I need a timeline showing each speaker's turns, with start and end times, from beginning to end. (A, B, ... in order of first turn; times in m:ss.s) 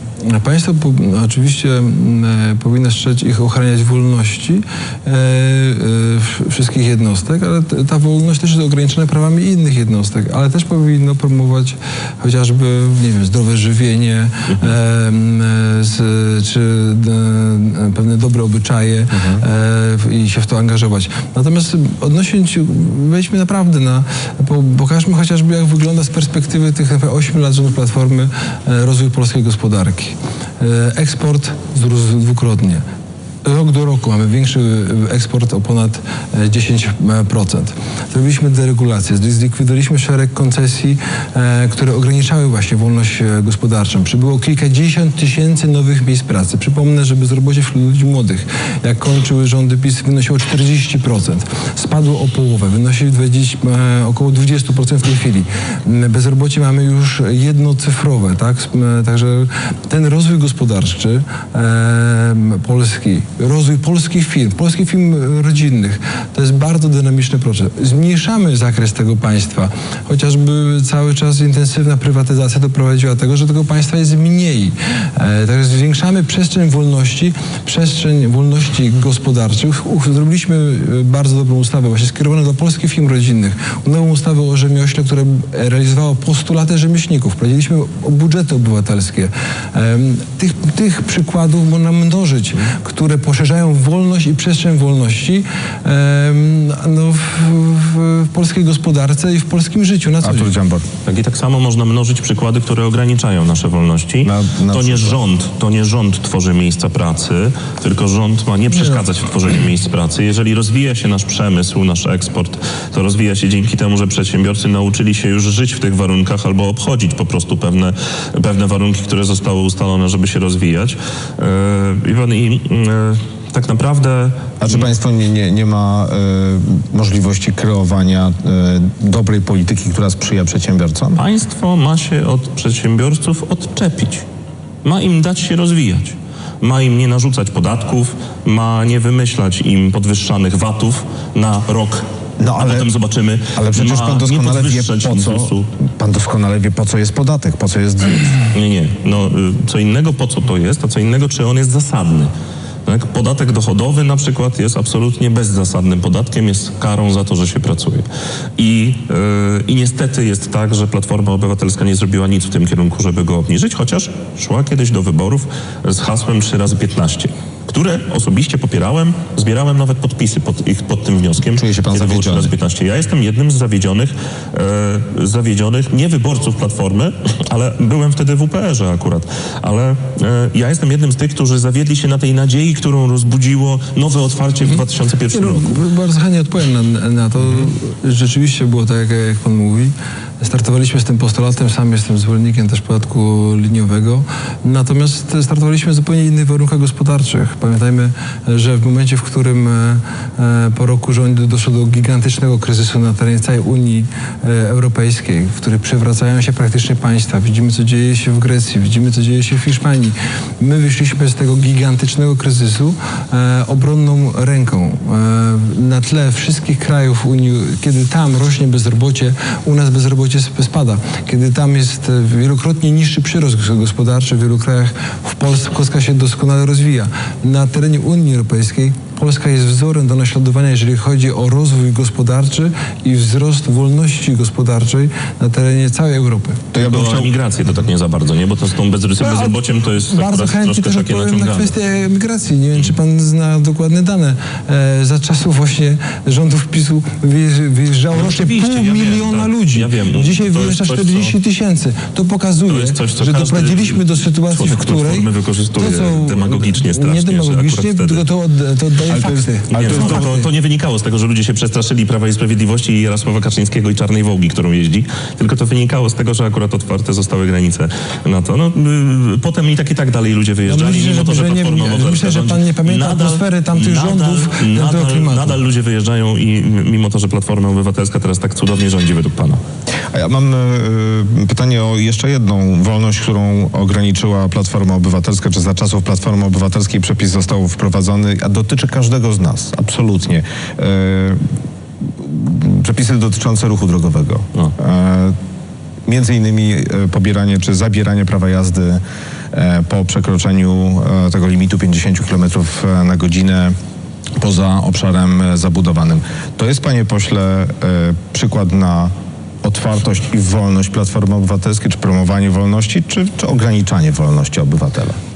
0:00.2-0:32.8 A
0:19.1-0:19.4 B
0:33.4-1:40.5 A
1:40.2-1:40.9 B
1:41.0-2:04.9 C
1:44.2-1:45.2 B
1:48.7-1:49.0 A
2:04.6-2:11.2 B
2:11.2-2:14.2 C
2:14.8-2:22.0 C
2:22.4-2:22.9 B
2:22.6-2:25.7 C
2:23.5-2:28.5 B
2:28.5-2:32.3 C
2:32.9-3:05.8 C
2:51.6-2:52.5 B
3:04.6-3:56.6 A
3:56.7-3:57.3 B
3:56.8-4:01.7 C
3:59.2-4:20.5 A
4:08.1-4:11.4 C
4:12.7-4:18.2 C
4:19.1-4:20.3 B
4:19.7-4:39.6 C
4:30.6-4:35.6 A
4:40.1-4:51.4 B
4:52.2-4:55.4 B
4:56.1-4:59.0 B
4:59.5-5:03.8 B
5:04.4-5:15.2 B